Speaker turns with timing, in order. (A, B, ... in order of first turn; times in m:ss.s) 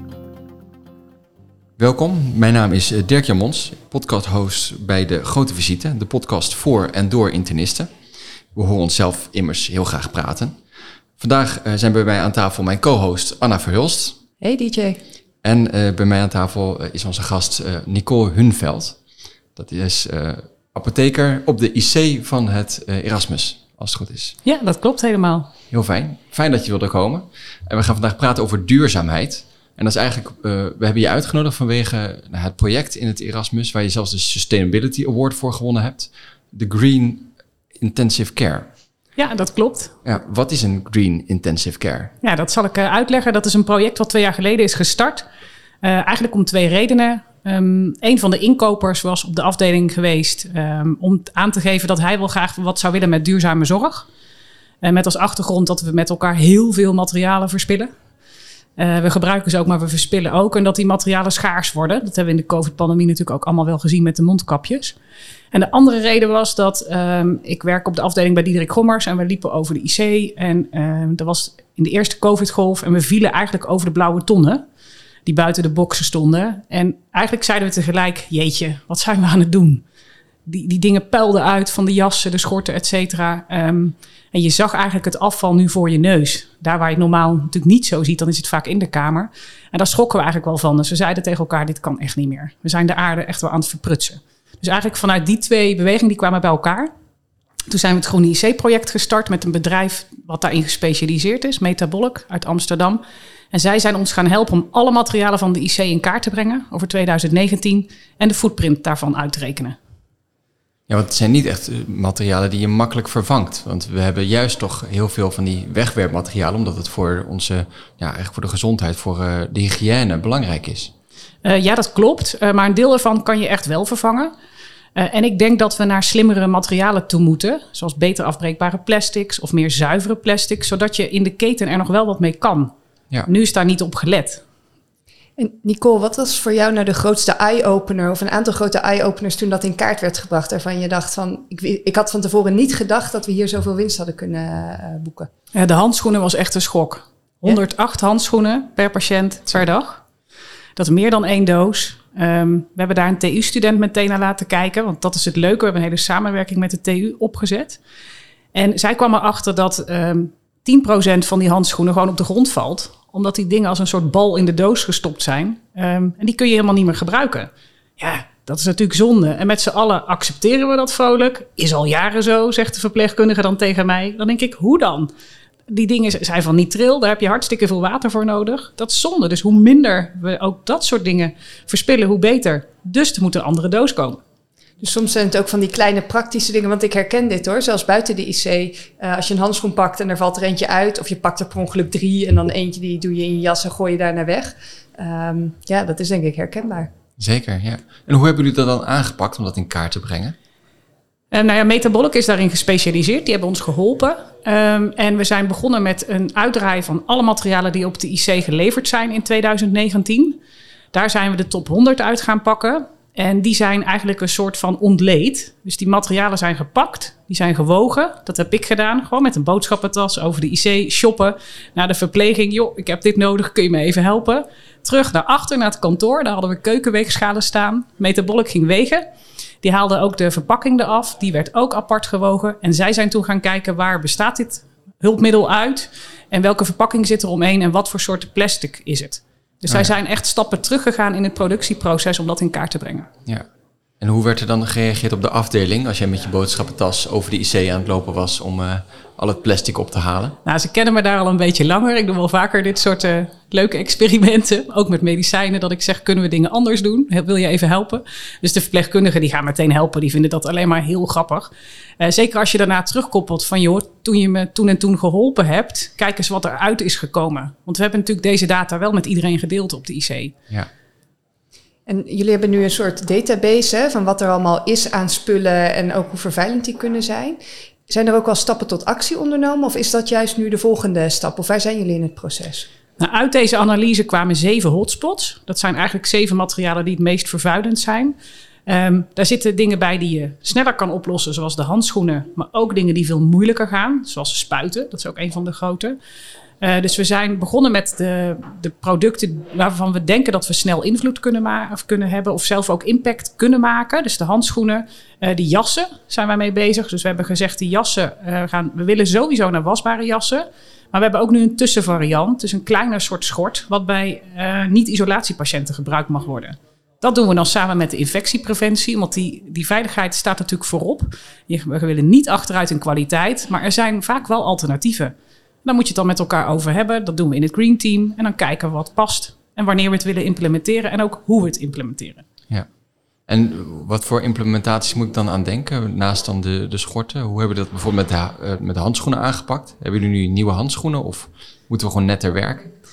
0:01.8-0:07.9 A
0:08.6-0:10.6 A
0:11.2-0:14.2 A
0:14.4-0:15.0 B
0:15.4-0:19.0 A
0:19.6-0:24.4 A
0:24.4-0:25.5 C
0:25.7-0:38.7 A
0:39.2-0:40.0 C
0:40.0-0:42.1 A
0:42.2-0:45.2 C
0:45.8-0:54.1 C
0:54.8-0:57.9 C
0:58.8-1:05.0 C
1:05.5-1:14.6 C
1:15.2-1:19.8 C
1:20.5-1:36.9 C
1:37.7-1:43.0 C
1:43.5-1:49.8 C
1:50.9-2:00.9 A
2:01.4-2:04.3 C
2:05.0-2:12.7 C
2:13.2-2:14.4 C
2:15.4-2:25.3 B
2:25.5-2:30.0 C
2:30.8-2:37.8 C
2:38.5-2:55.1 C
2:55.7-3:04.2 C
3:04.8-3:16.9 B
3:17.2-3:20.4 A
3:21.3-3:30.4 C
3:30.9-3:49.1 C
3:49.6-4:03.1 C
4:04.0-4:10.4 A
4:10.4-4:30.4 C
4:31.9-4:42.7 B
4:43.0-4:48.2 C
4:48.7-4:56.0 C
4:56.6-5:32.2 C
5:33.3-5:42.7 A